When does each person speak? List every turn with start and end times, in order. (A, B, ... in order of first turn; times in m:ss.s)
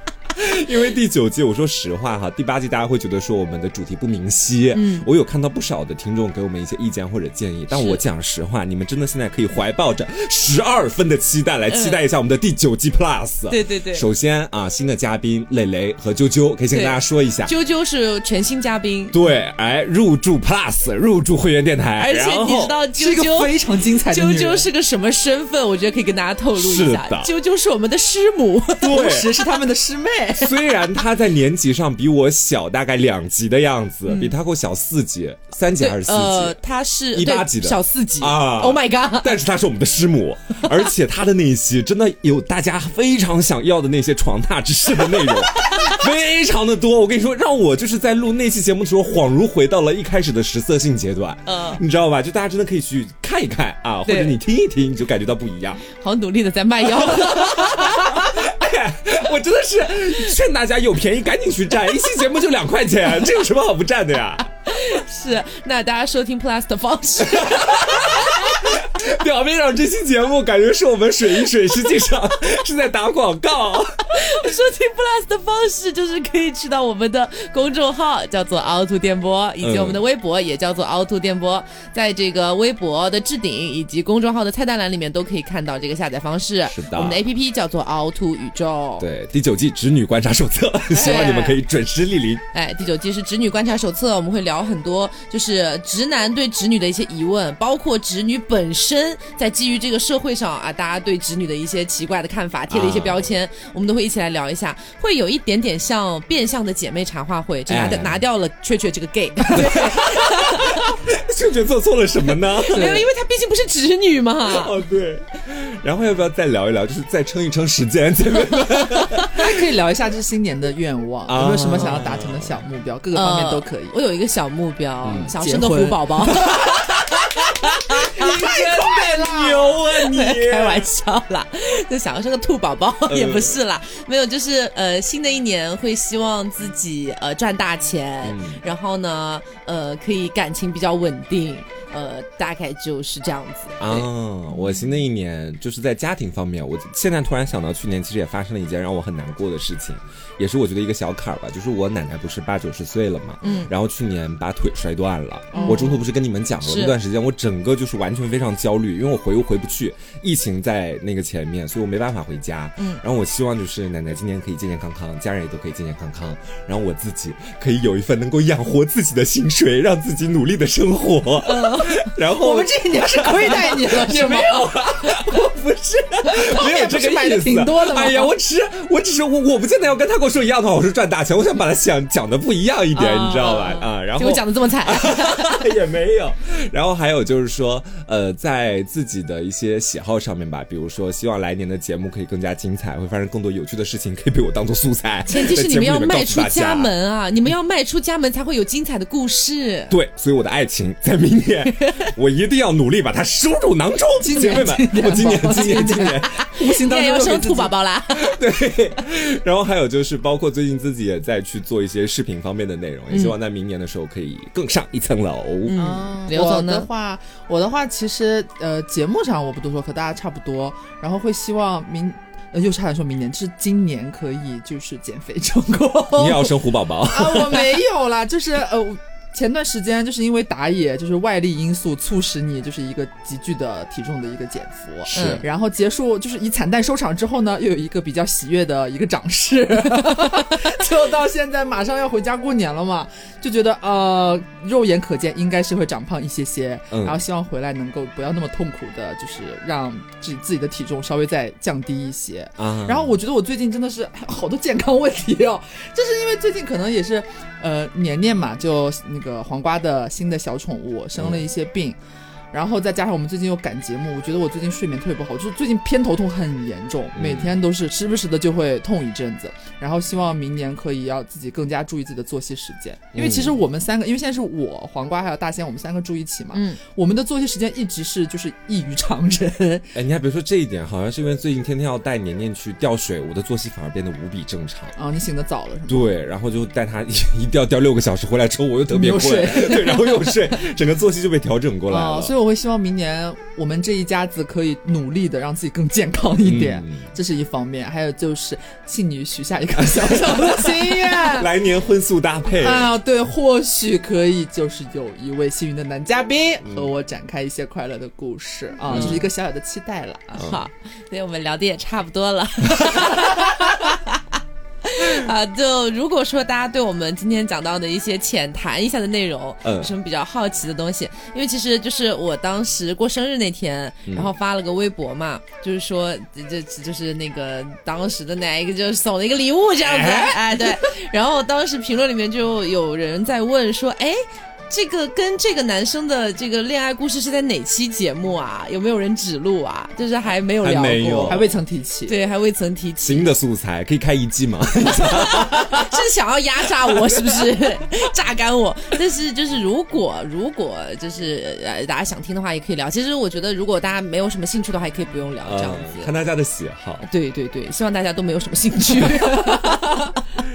0:00.3-0:17.5 A
0:04.7-0:05.1 B
0:07.7-0:08.0 B
0:11.7-0:12.0 B
0:13.5-0:14.1 B
0:16.7-0:19.2 B
0:19.1-0:22.8 A
0:22.0-0:29.0 B
0:22.9-0:24.7 C
0:26.6-0:27.3 A
0:28.8-0:30.6 C
0:28.8-0:29.4 A
0:30.4-0:36.6 A
0:34.1-0:34.4 B
0:35.8-0:39.4 B
0:37.1-0:55.8 A
0:51.4-0:51.8 B
0:54.0-0:54.4 B
0:55.9-0:58.2 B
0:57.0-1:04.4 A
1:04.7-1:08.1 B
1:07.2-1:14.1 A
1:14.1-1:29.1 B
1:19.6-1:20.0 A
1:26.7-1:27.2 A
1:29.0-1:32.4 A
1:30.9-1:31.6 B
1:31.0-1:31.4 C
1:32.5-1:50.9 B
1:42.7-1:43.3 A
1:47.7-1:48.2 A
1:49.6-1:53.0 A
1:52.7-1:54.8 B
1:52.7-1:53.1 C
1:54.5-1:59.4 A
1:59.3-2:04.0 C
2:01.2-2:02.6 A
2:03.1-2:08.2 B
2:05.0-2:05.4 A
2:05.1-2:06.6 C
2:08.1-2:09.8 C
2:08.2-2:10.9 A
2:10.1-2:24.7 B
2:13.1-2:13.6 A
2:18.2-2:18.6 A
2:23.8-3:16.9 A
2:33.4-2:33.7 B
2:35.5-2:35.9 C
2:35.6-2:36.0 B
2:36.6-2:37.0 B
2:51.4-2:52.1 B
2:52.4-2:54.6 C
2:56.3-2:58.3 C
3:02.9-3:05.7 B
3:15.3-3:20.0 B
3:19.9-3:26.4 A
3:21.7-3:22.1 B
3:24.2-3:27.7 C
3:25.9-3:28.4 B
3:28.2-3:35.8 A
3:33.1-3:33.4 B
3:35.6-3:36.9 B
3:35.8-4:22.0 C
3:46.1-3:47.8 A
3:55.1-3:55.4 A
3:55.1-3:55.4 B
4:06.9-4:07.2 A
4:12.6-4:13.1 A
4:21.2-4:21.5 A
4:22.5-4:39.9 C
4:27.1-4:27.6 A
4:33.1-4:33.6 A
4:36.5-4:36.8 B
4:39.9-4:44.9 A
4:45.0-4:46.1 C
4:45.9-4:52.3 A
4:48.9-4:50.5 C
4:51.9-5:01.5 C
4:56.4-4:57.1 A
4:59.9-5:02.9 A
5:02.6-5:10.4 C
5:06.6-5:06.9 A
5:08.9-5:09.2 B
5:08.9-5:09.3 A
5:10.3-5:43.3 B
5:10.4-5:10.6 A
5:19.6-5:19.9 A
5:29.8-5:30.6 A
5:40.6-5:41.4 A
5:41.2-5:42.2 C
5:43.0-5:45.8 A
5:44.9-5:56.1 B
5:47.0-5:47.5 A
5:55.4-5:57.0 A
5:57.0-6:00.2 B